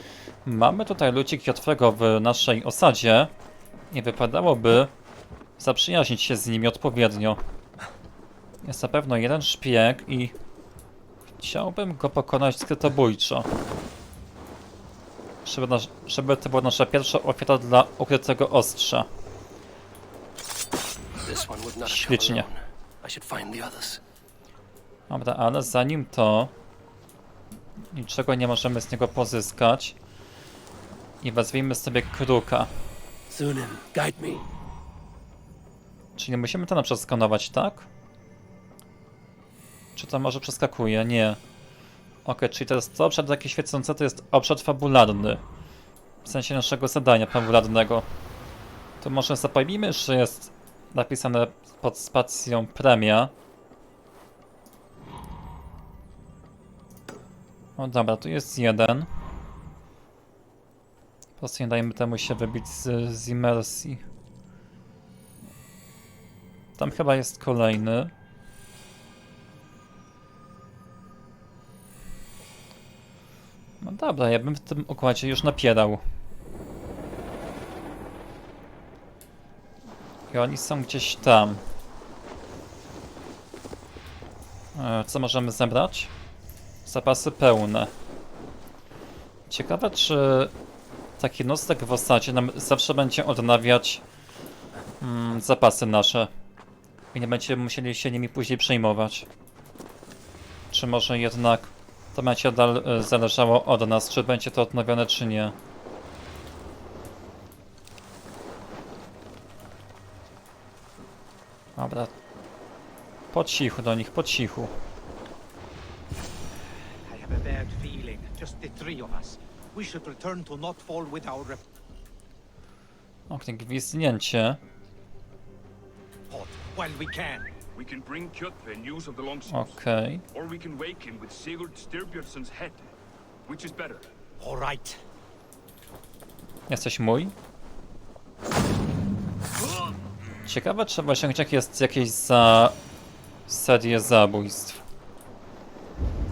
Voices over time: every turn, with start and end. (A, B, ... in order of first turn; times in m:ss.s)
0:00.4-0:03.3 A
0:03.9-0:04.9 A
0:05.6-0:07.4 A
0:08.6-0:10.3 A
0:11.4-0:13.5 A
0:15.4-0:19.1 A
0:21.2-0:24.0 B
0:21.8-0:22.5 A
0:25.1-0:26.5 A
0:27.9-0:30.0 A
0:31.2-0:32.7 A
0:33.3-0:34.5 B
0:36.2-0:37.9 A
0:40.0-0:41.4 A
0:42.2-0:45.4 A
0:46.2-0:48.1 A
0:49.0-0:53.3 A
0:57.8-0:59.1 A
1:01.4-1:04.0 A
1:06.8-1:08.1 A
1:13.8-1:16.0 A
1:20.3-1:21.6 A
1:24.7-1:26.1 A
1:26.8-1:27.9 A
1:29.5-1:30.5 A
1:31.2-1:34.0 A
1:35.0-1:36.3 A
1:37.1-1:39.3 A
1:40.7-1:45.5 A
1:51.8-1:52.1 A
1:53.3-1:54.7 A
1:57.0-2:01.7 C
2:03.3-2:04.6 A
2:06.3-2:07.5 C
2:07.7-2:09.7 D
2:09.5-2:10.2 A
2:10.3-2:12.8 D
2:13.4-2:14.1 D
2:14.4-2:15.0 C
2:16.7-2:17.3 A
2:20.4-2:22.8 A
2:23.5-2:24.8 A